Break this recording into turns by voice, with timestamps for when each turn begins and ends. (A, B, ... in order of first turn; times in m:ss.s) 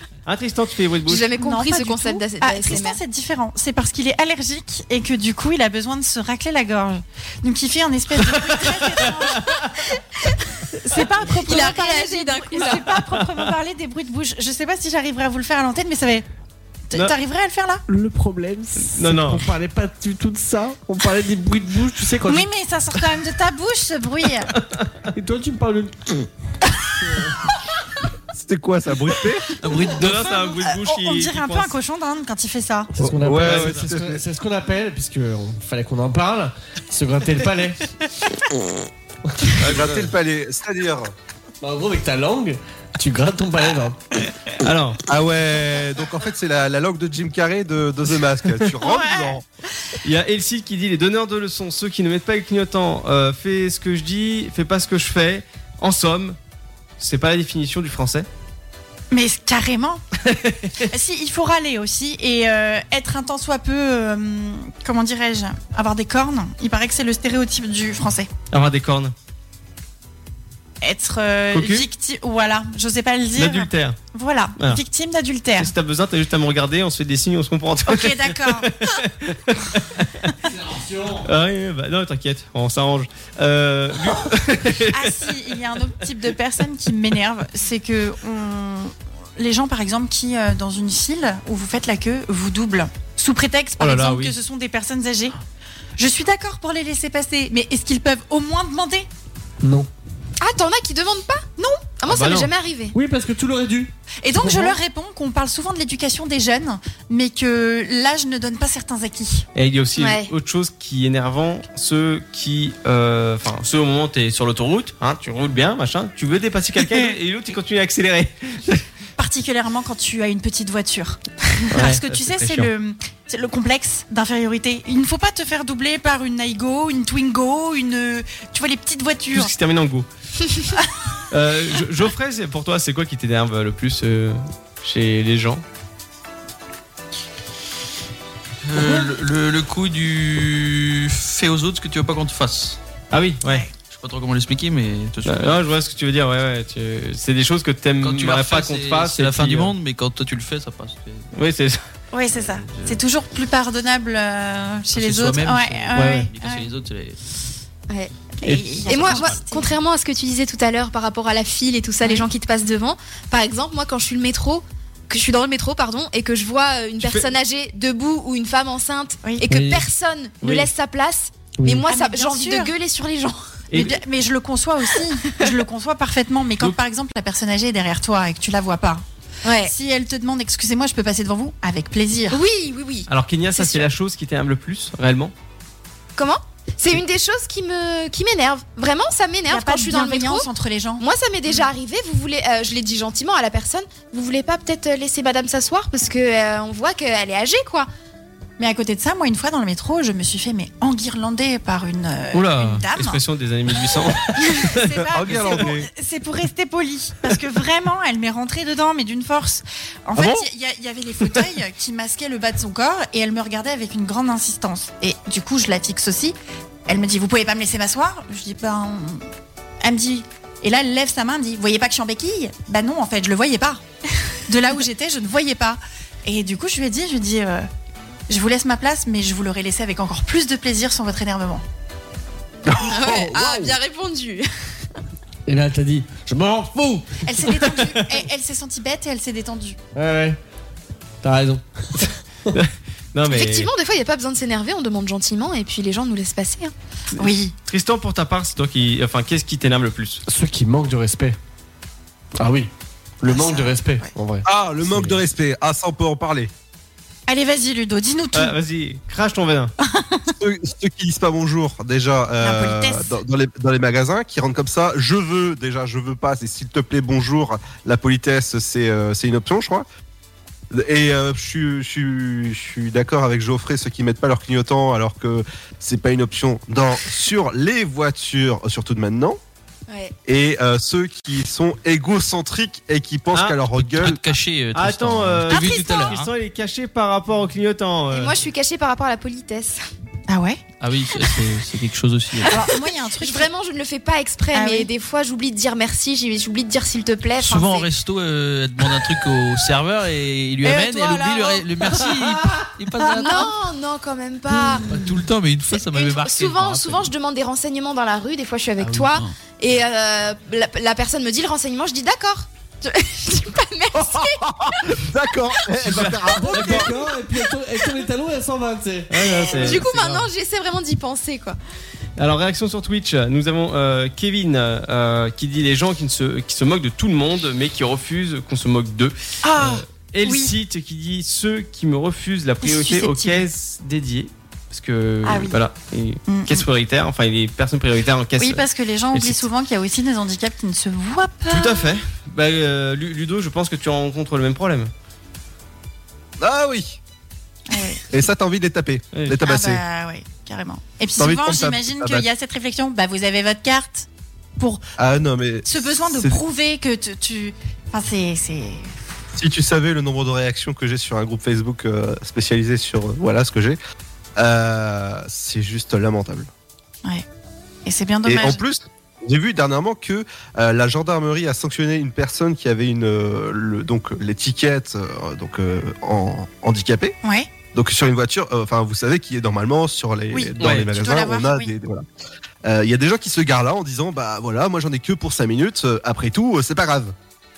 0:00.3-0:01.2 A
0:01.1-0:03.0 B
0:01.3-0:09.7 C
0:08.3-0:09.7 A
0:10.7-0:16.2 C
0:11.3-0:13.0 B
0:13.2-0:13.5 A
0:16.9-0:17.8 C
0:17.9-0:22.5 D
0:18.8-0:19.5 A
0:22.2-0:24.5 C
0:24.6-0:24.9 A
0:25.1-0:26.3 D
0:27.0-0:27.4 D
0:28.3-0:29.5 E
0:29.6-0:30.1 F
0:29.8-0:32.9 C
0:29.9-0:31.7 A
0:33.0-0:37.8 D
0:33.0-0:34.2 E
0:33.4-0:33.9 A
0:39.6-0:40.0 A
0:39.6-0:41.1 E
0:41.6-0:44.0 D
0:44.6-0:45.0 A
0:45.1-0:49.4 E
0:48.8-0:49.4 C
0:50.0-0:56.4 A
0:57.0-0:58.3 A
0:59.1-1:00.0 C
1:00.2-1:00.9 A
1:00.9-1:08.3 C
1:08.5-1:09.1 A
1:10.8-1:15.7 C
1:11.5-1:11.9 A
1:13.4-1:14.0 A
1:15.6-1:20.3 A
1:17.9-1:18.7 C
1:20.5-1:21.2 D
1:21.2-1:25.2 A
1:24.8-1:35.4 C
1:33.8-1:34.4 A
1:36.0-1:39.1 C
1:39.6-1:39.9 D
1:40.4-1:41.4 B
1:41.6-1:41.9 C
1:42.0-1:43.0 B
1:42.1-1:42.5 A
1:42.9-1:44.8 D
1:44.2-1:49.5 C
1:49.6-1:58.8 A
1:50.0-1:50.3 B
1:56.8-1:57.1 C
1:59.2-2:09.5 C
2:01.7-2:02.7 A
2:09.3-2:10.1 A
2:11.3-2:15.6 A
2:18.7-2:22.8 F
2:23.1-2:23.6 A
2:23.4-2:23.7 C
2:23.8-2:25.6 F
2:25.2-2:29.7 A
2:28.0-2:31.3 F
2:31.3-2:31.8 A
2:32.1-2:36.7 C
2:32.3-2:33.0 F
2:34.9-2:37.2 F
2:35.9-2:36.3 A
2:38.4-2:39.7 C
2:38.4-2:39.4 A
2:38.9-2:53.6 B
2:47.0-2:47.3 A
2:49.2-2:49.5 C
2:49.5-2:49.8 D
2:50.4-2:50.7 A
2:51.6-2:51.9 D
2:51.9-2:52.7 C
2:53.7-2:54.0 A
2:53.7-2:59.0 C
2:59.4-2:59.7 B
2:59.6-3:02.4 C
3:02.3-3:03.9 B
3:03.1-3:05.3 A
3:06.2-3:10.5 B
3:09.5-3:11.0 C
3:11.0-3:17.9 B
3:18.6-3:23.2 C
3:22.3-3:25.7 A
3:24.4-3:36.4 C
3:25.1-3:25.9 E
3:30.2-3:30.4 E
3:36.9-3:39.2 C
3:39.8-3:43.8 C
3:44.5-3:47.7 C
3:48.3-3:51.6 C
3:52.7-3:53.8 D
3:52.7-3:54.5 B
3:55.5-3:57.5 D
3:57.2-3:59.8 C
4:00.0-4:00.4 D
4:01.2-4:02.0 D
4:02.5-4:03.7 A
4:03.3-4:06.7 B
4:07.2-4:07.5 C
4:07.2-4:10.2 A
4:10.3-4:11.4 D
4:12.4-4:12.7 D
4:13.2-4:15.2 D
4:13.3-4:14.1 C
4:14.4-4:16.5 E
4:17.3-4:18.6 C
4:18.3-4:19.7 A
4:19.8-4:20.3 C
4:20.4-4:29.9 E
4:22.4-4:23.2 C
4:30.7-4:39.4 E
4:39.9-4:40.1 B
4:40.3-4:44.2 E
4:43.3-4:43.6 A
4:43.7-4:46.3 F
4:44.7-4:48.3 A
4:45.5-4:46.1 C
4:48.1-4:49.8 B
4:50.3-4:50.6 C
4:50.8-4:52.7 F
4:52.4-4:53.5 C
4:53.2-4:57.9 B
4:54.5-4:54.9 C
4:57.4-5:03.5 F
5:00.6-5:02.1 C
5:00.6-5:01.6 B
5:03.0-5:03.4 C
5:03.2-5:04.9 B
5:04.5-5:07.1 F
5:05.7-5:15.0 B
5:08.8-5:09.3 F
5:14.0-5:16.9 E
5:15.8-5:16.9 A
5:16.3-5:19.8 D
5:19.1-5:20.2 A
5:19.5-5:21.6 B
5:22.2-5:39.5 A
5:29.4-5:30.5 C
5:32.6-5:33.4 C
5:35.2-5:35.6 C
5:36.3-5:36.6 C
5:38.4-5:42.0 C
5:41.5-5:44.9 A
5:46.4-5:47.0 E
5:47.7-5:48.1 C
5:48.1-5:49.8 E
5:49.4-5:54.8 C
5:51.2-5:52.2 E
5:55.0-5:56.4 E
5:55.7-5:58.9 C
5:59.4-6:03.8 E
6:04.4-6:06.5 E
6:07.8-6:08.6 C
6:08.2-6:17.2 E
6:17.2-6:17.5 C
6:17.7-6:22.0 E
6:20.3-6:21.7 C
6:20.6-6:20.9 A
6:22.6-6:27.1 E